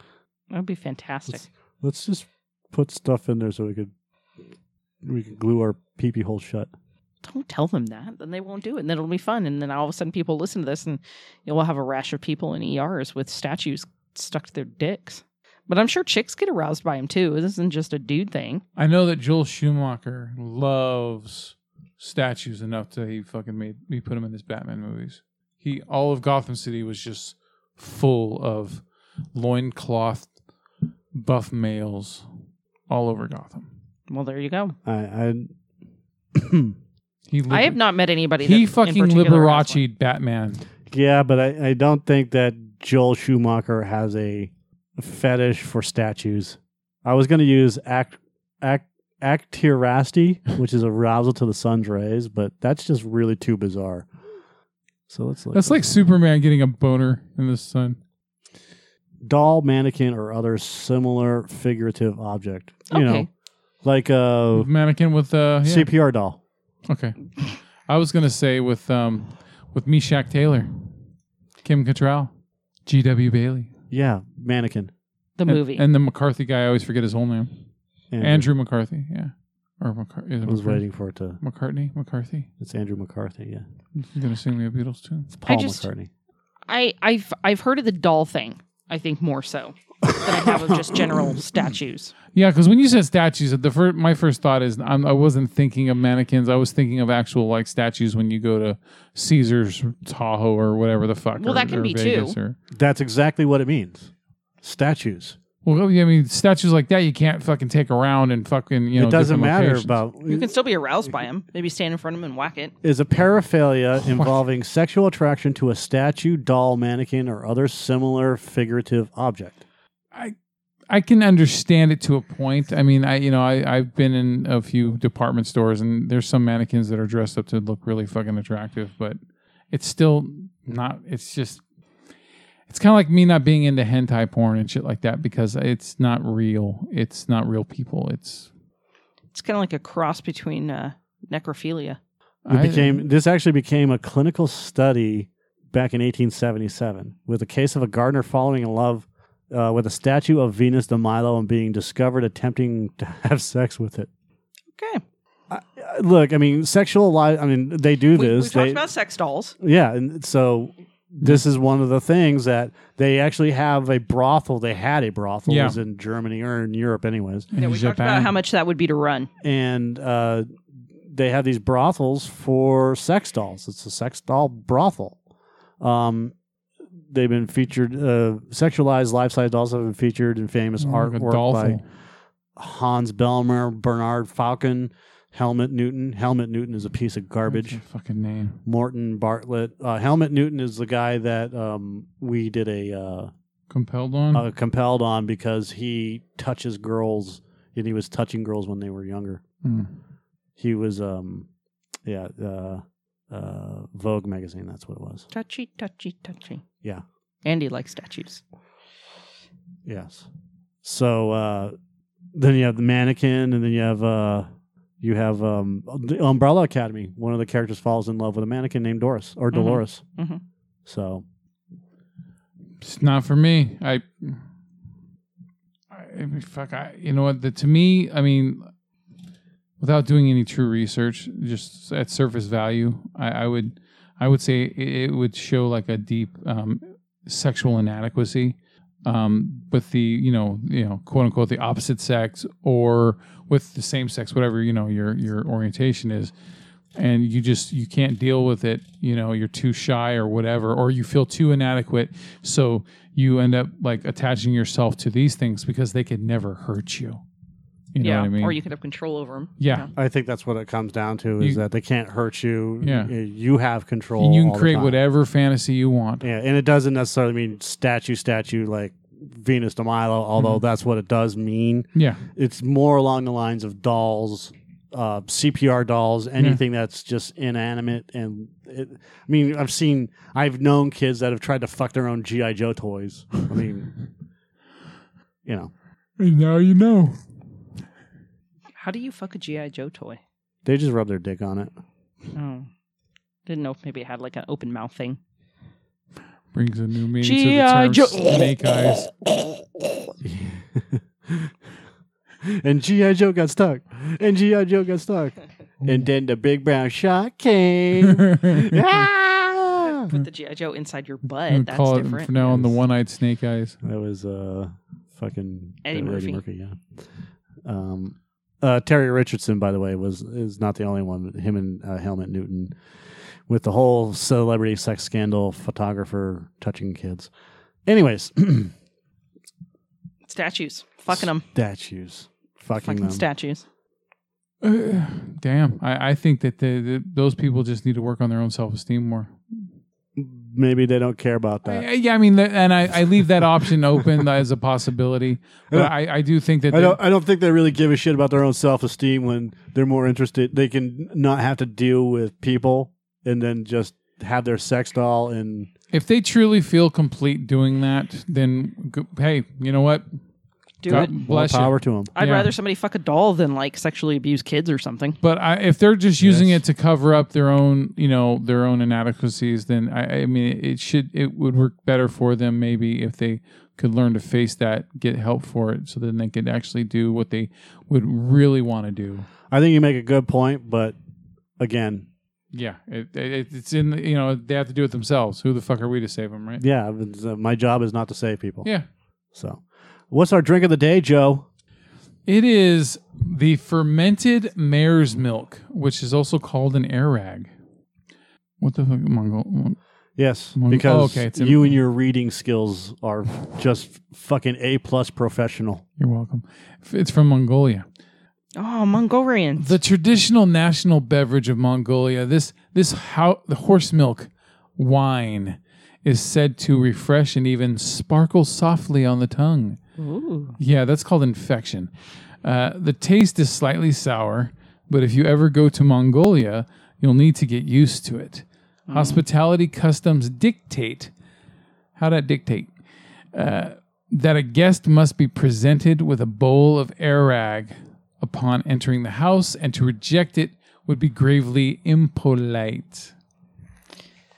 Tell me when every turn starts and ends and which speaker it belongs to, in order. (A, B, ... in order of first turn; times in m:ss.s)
0:00.5-0:01.5 A
0:01.8-0:03.9 B
0:05.0-0:06.7 B
0:07.2-0:18.6 A
0:18.8-0:28.8 C
0:29.3-0:30.3 C
0:31.1-0:32.2 C
0:32.9-0:33.6 C
0:34.1-0:34.8 A
0:34.8-0:35.5 B
0:36.3-0:36.7 B
0:37.3-0:37.8 C
0:37.5-0:39.8 A
0:38.4-0:40.6 C
0:40.9-0:54.1 B
0:55.1-0:56.0 B
0:55.5-0:58.0 C
0:59.2-1:03.3 B
1:02.9-1:03.3 A
1:03.8-1:04.7 B
1:04.5-1:05.9 C
1:05.6-1:06.4 B
1:06.9-1:10.8 C
1:11.6-1:12.3 C
1:12.8-1:13.7 C
1:13.9-1:14.9 B
1:15.4-1:15.8 A
1:15.5-1:17.5 C
1:18.1-1:18.5 B
1:18.2-1:20.8 C
1:20.4-1:21.4 B
1:21.4-1:22.5 C
1:22.6-1:23.6 B
1:24.0-1:25.3 C
1:25.3-1:26.1 B
1:25.5-1:25.9 A
1:26.7-1:32.1 A
1:30.0-1:31.3 B
1:32.3-1:42.6 C
1:41.4-1:42.4 A
1:42.7-1:44.1 B
1:44.6-1:45.4 B
1:45.6-1:50.0 C
1:49.0-1:50.5 B
1:50.3-1:52.7 A
1:52.8-1:59.6 B
1:54.1-1:54.4 C
2:00.9-2:09.2 C
2:09.7-2:11.6 C
2:12.7-2:18.5 C
2:19.3-2:22.0 A
2:22.4-2:23.0 C
2:22.5-2:34.1 B
2:34.7-2:35.0 A
2:35.5-2:38.8 B
2:38.1-2:39.5 A
2:39.6-2:47.5 B
2:45.5-2:45.8 C
2:47.5-2:48.4 C
2:47.5-2:49.3 A
2:49.4-2:50.5 B
2:51.1-2:55.2 B
2:55.8-2:56.3 B
2:57.1-3:01.8 B
3:00.8-3:01.8 C
3:02.6-3:07.8 B
3:07.5-3:08.6 C
3:08.6-3:13.3 B
3:13.7-3:14.4 C
3:14.3-3:19.4 B
3:19.6-3:19.9 C
3:20.6-3:21.5 B
3:22.0-3:25.2 B
3:25.3-3:26.6 A
3:27.4-3:28.4 A
3:29.8-3:30.3 B
3:30.8-3:31.7 B
3:32.3-3:34.5 B
3:35.0-3:40.0 B
3:39.5-3:40.4 A
3:40.8-3:41.2 B
3:42.8-3:44.4 C
3:45.9-3:48.7 C
3:49.8-4:06.3 C
4:07.0-4:17.2 C
4:17.9-4:18.6 C
4:18.0-4:19.9 A
4:19.6-4:19.9 C
4:20.0-4:25.0 B
4:22.8-4:23.1 C
4:24.2-4:26.2 C
4:26.2-4:43.9 B
4:31.9-4:32.2 C
4:45.4-4:45.7 B
4:46.2-4:47.2 C
4:48.8-4:50.2 A
4:50.6-4:51.7 B
4:52.3-4:52.7 A
4:53.4-4:55.2 A
4:56.5-4:59.1 C
4:57.2-4:58.7 A
5:00.2-5:01.5 B
5:02.4-5:10.1 B
5:08.2-5:08.6 C
5:09.9-5:12.3 A
5:11.5-5:13.8 C
5:12.4-5:12.8 B
5:13.8-5:16.8 B
5:15.8-5:16.4 A
5:17.6-5:22.7 B
5:23.5-5:27.3 B
5:27.8-5:28.7 B
5:30.3-5:31.4 A
5:31.1-5:33.2 B
5:32.8-5:33.6 A
5:34.6-5:39.6 C
5:40.2-5:41.9 B
5:41.6-5:47.0 C
5:46.7-5:55.7 B
5:55.9-6:00.0 C
6:00.8-6:01.1 A
6:00.8-6:02.5 C
6:00.8-6:02.1 B
6:02.1-6:05.2 A
6:05.2-6:19.3 C
6:06.2-6:06.6 B
6:19.5-6:21.0 B
6:21.6-6:22.1 B
6:22.5-6:26.6 C
6:26.6-6:28.7 B
6:29.3-6:31.4 B
6:32.2-6:37.5 C
6:38.6-6:39.8 C
6:40.2-6:45.8 B
6:40.5-6:41.8 C
6:46.0-6:47.8 C
6:48.6-6:49.7 A
6:49.6-6:59.8 C
7:00.0-7:00.6 A
7:00.6-7:01.9 C
7:02.4-7:11.1 C
7:08.9-7:09.2 A
7:12.0-7:12.7 C
7:13.3-7:23.1 C